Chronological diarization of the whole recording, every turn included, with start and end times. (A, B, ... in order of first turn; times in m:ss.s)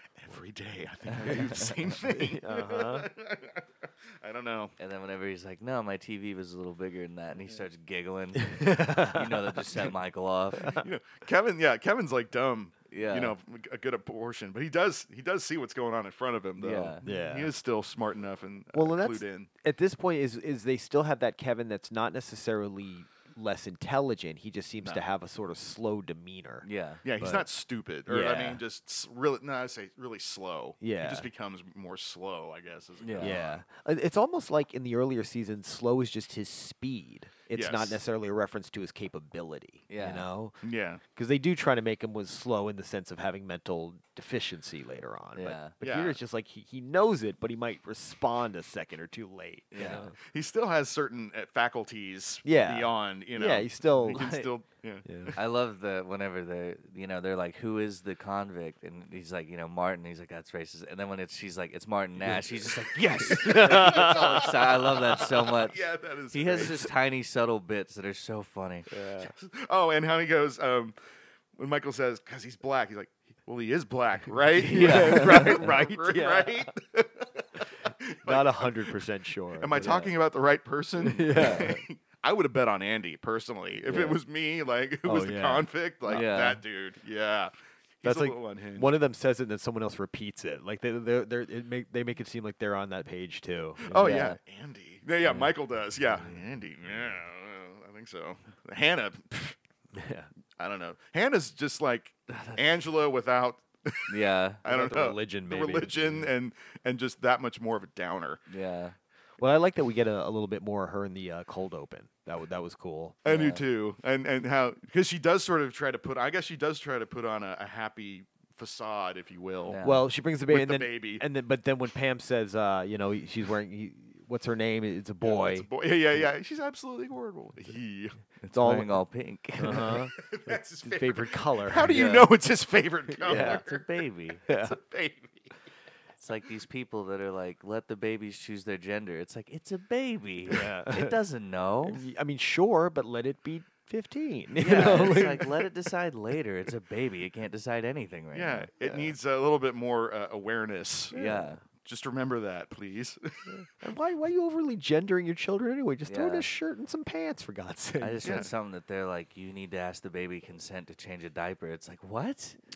0:00.2-0:04.7 A
0:01.1-0:01.7 B
0:02.0-0:03.1 C
0:04.8-0:10.8 B
0:08.4-0:09.6 C
0:10.6-0:10.8 C
0:10.7-0:19.5 A
0:12.9-0:13.3 B
0:16.6-0:17.0 B
0:17.0-0:17.5 C
0:18.7-0:26.7 C
0:26.6-0:27.0 B
0:27.0-0:33.6 A
0:27.2-0:27.5 C
0:28.1-0:28.6 C
0:30.8-0:31.3 C
0:33.0-0:33.4 B
0:33.2-0:40.6 C
0:37.5-0:38.0 A
0:39.9-0:40.3 B
0:40.6-0:41.0 A
0:41.2-0:50.2 C
0:45.4-0:45.7 B
0:45.8-0:46.2 A
0:49.7-0:50.1 B
0:49.8-0:55.3 A
0:52.4-0:54.2 C
0:54.1-0:54.5 B
0:55.1-0:55.4 C
0:55.4-1:05.8 B
1:03.2-1:05.3 C
1:03.2-1:06.9 A
1:06.3-1:08.9 B
1:08.9-1:09.3 C
1:09.2-1:11.0 A
1:11.6-1:19.0 A
1:14.6-1:15.6 B
1:14.7-1:16.7 C
1:17.8-1:20.1 C
1:19.6-1:28.9 A
1:19.8-1:20.1 B
1:21.0-1:21.8 C
1:21.3-1:21.7 B
1:23.9-1:24.2 C
1:25.0-1:26.3 C
1:26.1-1:26.6 B
1:28.0-1:34.2 C
1:33.9-1:39.6 A
1:33.9-1:34.4 B
1:35.2-1:35.6 C
1:39.9-1:40.3 C
1:40.6-1:48.4 A
1:42.3-1:42.6 B
1:44.1-1:44.6 B
1:44.7-1:46.3 C
1:48.5-1:49.0 B
1:49.4-1:53.2 C
1:53.2-1:59.9 A
1:53.3-1:53.6 B
1:59.7-2:00.0 B
1:59.8-2:05.7 C
2:00.5-2:01.2 A
2:05.2-2:08.2 A
2:08.4-2:10.1 B
2:08.5-2:08.9 C
2:09.6-2:12.1 C
2:10.2-2:13.8 A
2:11.8-2:12.3 B
2:13.2-2:13.6 C
2:13.2-2:14.4 B
2:14.5-2:14.8 C
2:14.5-2:15.5 A
2:16.2-2:22.0 B
2:20.5-2:21.2 C
2:21.9-2:25.6 C
2:24.6-2:29.1 B
2:24.8-2:25.4 A
2:28.3-2:31.2 A
2:31.1-2:31.6 C
2:31.1-2:31.6 B
2:31.7-2:33.6 A
2:33.5-2:38.5 C
2:36.1-2:36.5 B
2:38.0-2:42.6 B
2:38.2-2:38.5 A